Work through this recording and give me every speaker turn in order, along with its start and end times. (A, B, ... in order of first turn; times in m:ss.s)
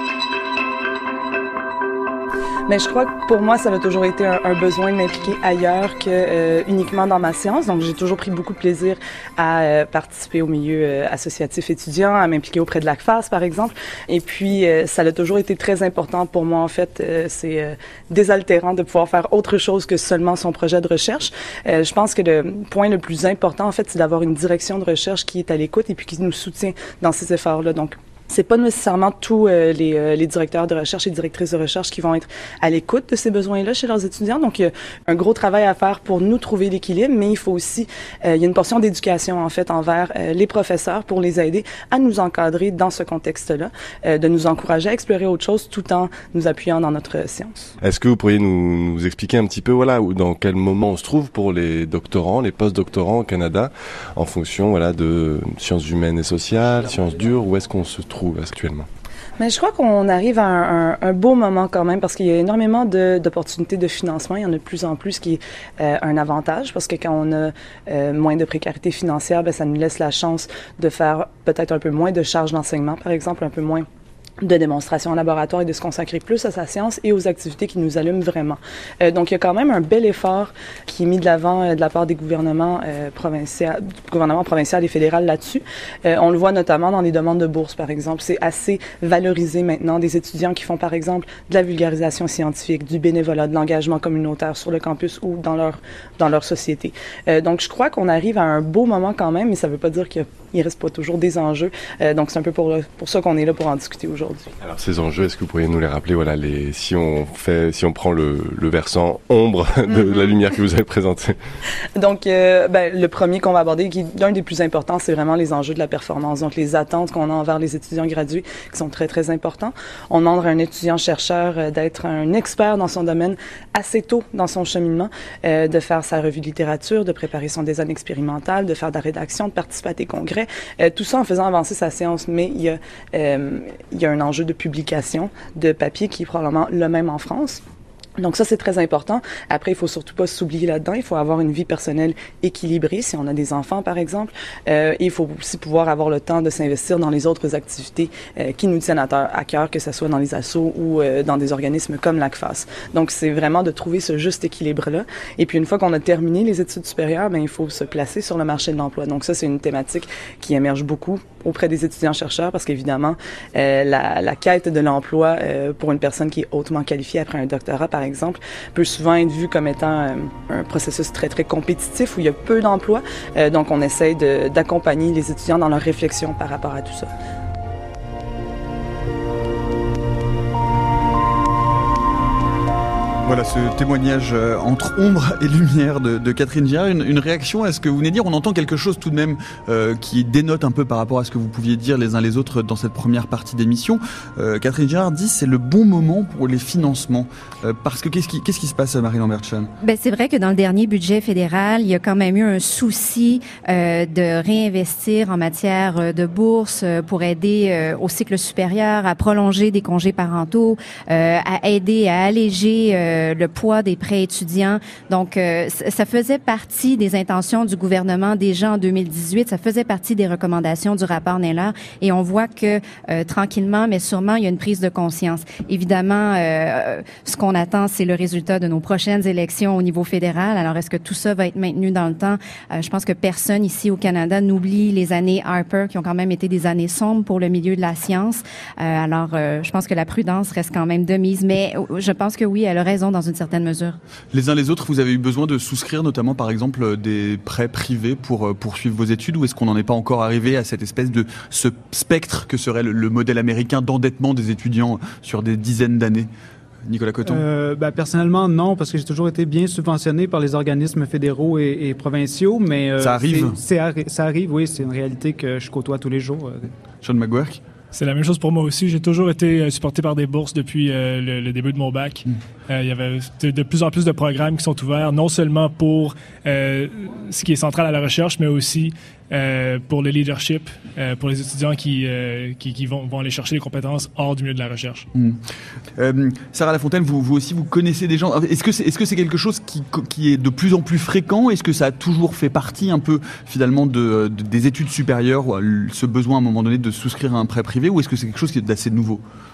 0:02.7-0:47.7 A
0:47.8-0:58.9 B
0:59.4-1:13.9 A
1:14.4-1:44.5 A
1:44.6-1:51.4 B
1:52.0-2:17.6 A
2:18.2-2:57.1 A
3:03.2-3:19.7 C
3:19.8-4:04.0 D
4:04.3-4:16.3 C
4:16.9-4:17.4 C
4:17.3-4:26.7 E
4:23.0-4:23.6 C
4:27.0-4:27.6 C
4:27.9-4:45.1 F
4:46.0-4:59.2 C